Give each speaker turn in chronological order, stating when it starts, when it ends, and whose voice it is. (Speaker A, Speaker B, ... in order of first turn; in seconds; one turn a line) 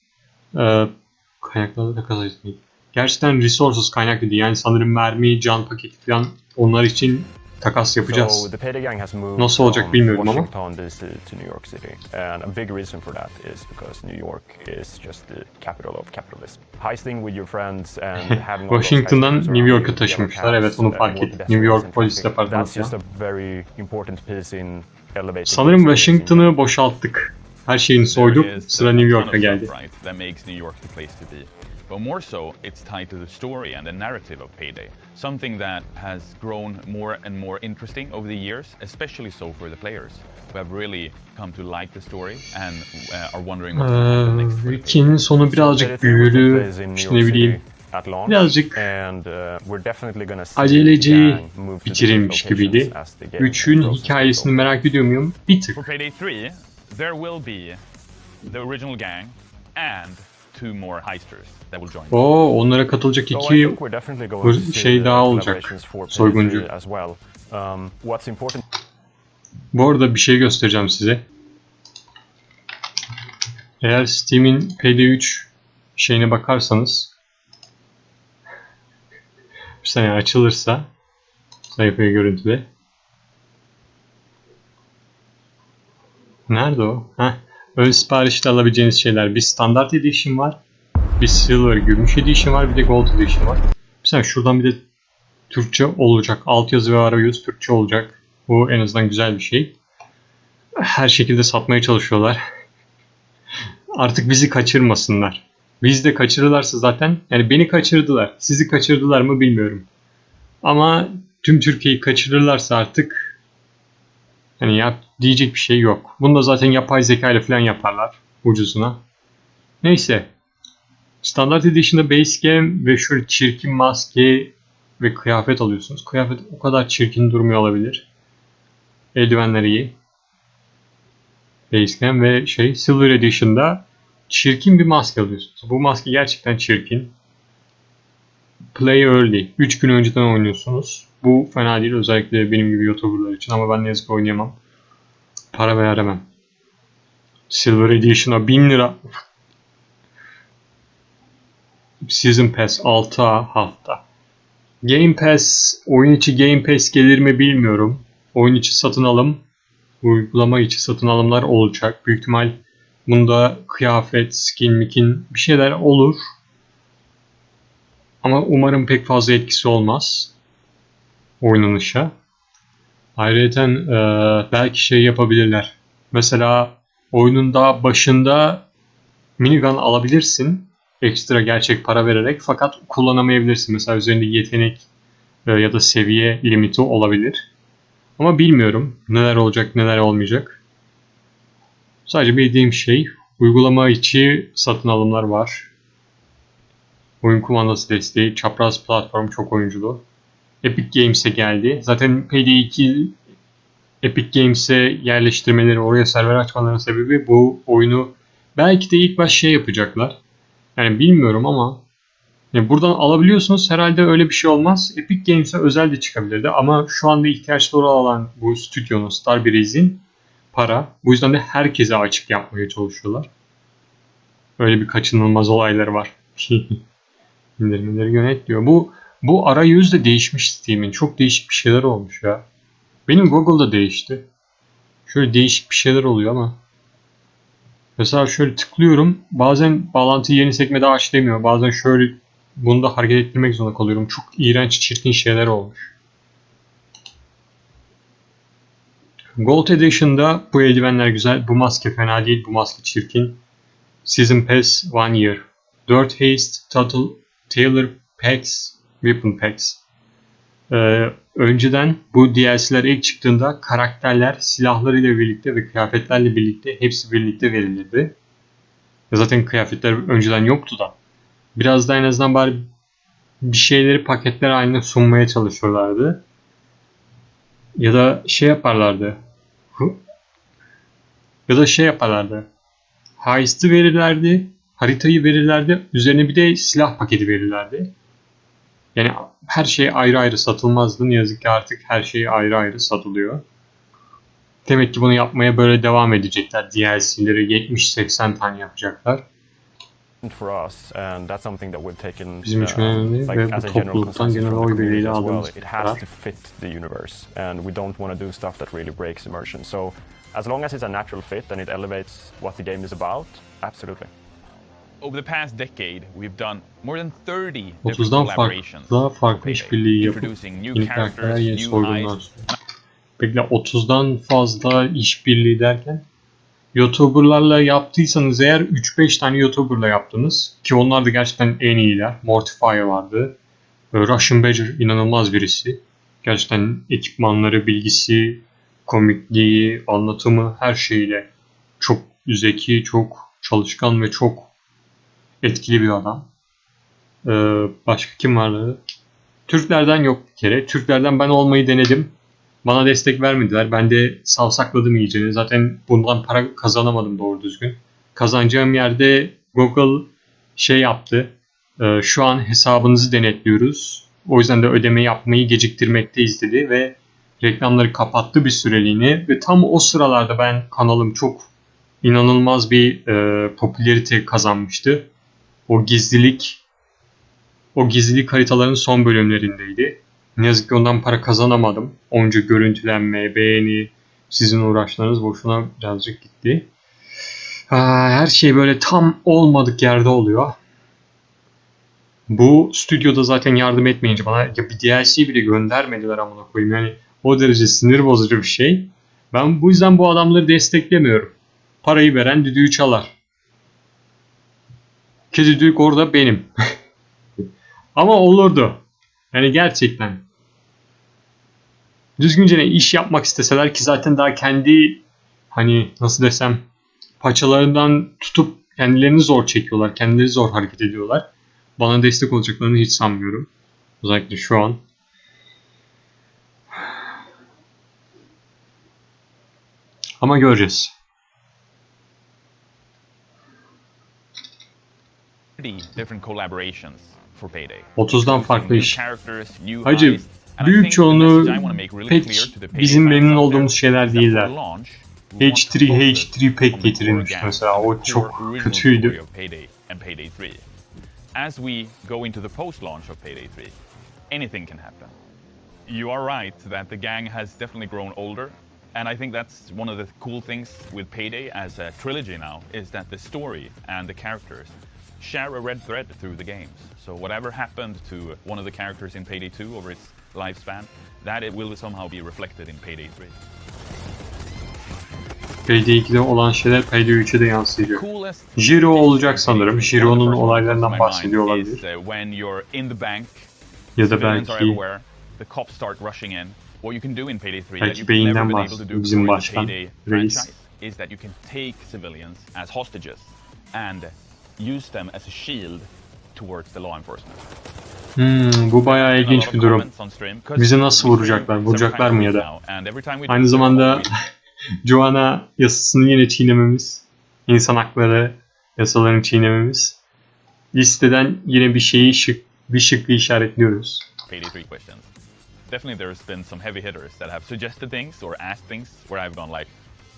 Speaker A: 0.5-8.5
Speaker B: 8.1-26.6
Speaker A: 9.4-10.5
Speaker A: 18.3-22.9
Speaker A: 25.5-29.7
Speaker C: 28.1-45.2
Speaker A: 43.8-47.6
Speaker B: 45.5-54.6
Speaker A: 48.3-48.9
Speaker A: 50.6-55.8
Speaker C: 55.7-57.8
Speaker C: 58.5-62.2
Speaker A: 62.1-63.8
Speaker B: 63.3-68.6
Speaker A: 64.4-66.7
Speaker A: 69.7-71.2
Speaker A: 73.8-77.1
Speaker A: 79.8-80.9
Speaker A: 81.7-82.7
Speaker A: 86.5-90.6
Speaker A: 91.2-94.8
Speaker A: 95.5-99.8
Speaker A: 100.8-102.4
Speaker A: 104.0-109.9
Speaker A: 110.6-113.3
Speaker A: 114.6-119.0
Speaker A: 119.8-120.3
Speaker A: 121.2-128.1
Speaker A: 129.2-130.0
Speaker A: 131.7-137.1
Speaker A: 138.8-144.6
Speaker A: 145.5-146.3
Speaker A: 147.5-149.2
Speaker A: 152.1-154.0
Speaker A: 154.8-159.4
Speaker A: 160.0-166.2
Speaker A: 168.2-170.3
Speaker A: 171.4-172.1
Speaker A: 173.2-178.7
Speaker A: 179.4-184.8
Speaker A: 185.5-187.5
Speaker A: 188.2-190.6
Speaker A: 192.1-195.7
Speaker A: 197.2-200.0
Speaker A: 200.6-203.2
Speaker A: 204.0-210.2
Speaker A: 210.8-211.8
Speaker A: 212.5-223.3
Speaker A: 224.6-226.8
Speaker A: 227.6-232.4
Speaker A: 233.1-234.3
Speaker A: 235.1-236.6
Speaker A: 238.0-245.9
Speaker A: 249.4-253.4
Speaker A: 254.1-259.8
Speaker A: 260.7-268.1
Speaker A: 269.1-271.0
Speaker A: 271.6-272.6
Speaker A: 273.4-276.2
Speaker A: 277.8-279.2
Speaker A: 281.5-282.5
Speaker A: 283.2-287.9
Speaker A: 288.9-293.4
Speaker A: 294.7-299.2
Speaker B: 300.2-314.1
Speaker A: 302.4-306.0
Speaker C: 315.0-322.3
Speaker A: 317.8-322.4
Speaker A: 323.2-326.1
Speaker A: 326.7-333.4
Speaker A: 333.9-341.3
Speaker A: 341.8-344.5
Speaker A: 345.4-346.3
Speaker A: 347.2-348.8
Speaker A: 349.5-352.1
Speaker A: 352.6-371.5
Speaker A: 372.0-375.1
Speaker A: 375.7-376.6
Speaker A: 377.8-386.7
Speaker A: 387.7-390.6
Speaker A: 392.3-403.1
Speaker A: 405.3-406.5
Speaker A: 407.9-410.2
Speaker A: 412.2-416.6
Speaker A: 417.2-423.5
Speaker A: 424.0-424.8
Speaker A: 430.2-430.9
Speaker C: 435.6-450.6
Speaker A: 438.0-439.0
Speaker A: 439.9-444.5
Speaker A: 445.4-449.2
Speaker C: 451.3-453.8
Speaker C: 454.3-455.1
Speaker C: 455.9-473.4
Speaker A: 475.7-478.0
Speaker C: 477.9-497.5
Speaker A: 478.6-481.8
Speaker A: 484.0-484.8
Speaker A: 487.8-490.5
Speaker A: 498.2-499.9
Speaker C: 498.9-504.1
Speaker A: 500.6-502.5
Speaker A: 503.3-504.1
Speaker A: 504.8-510.0
Speaker A: 510.7-514.1
Speaker C: 514.3-515.1
Speaker C: 515.7-519.7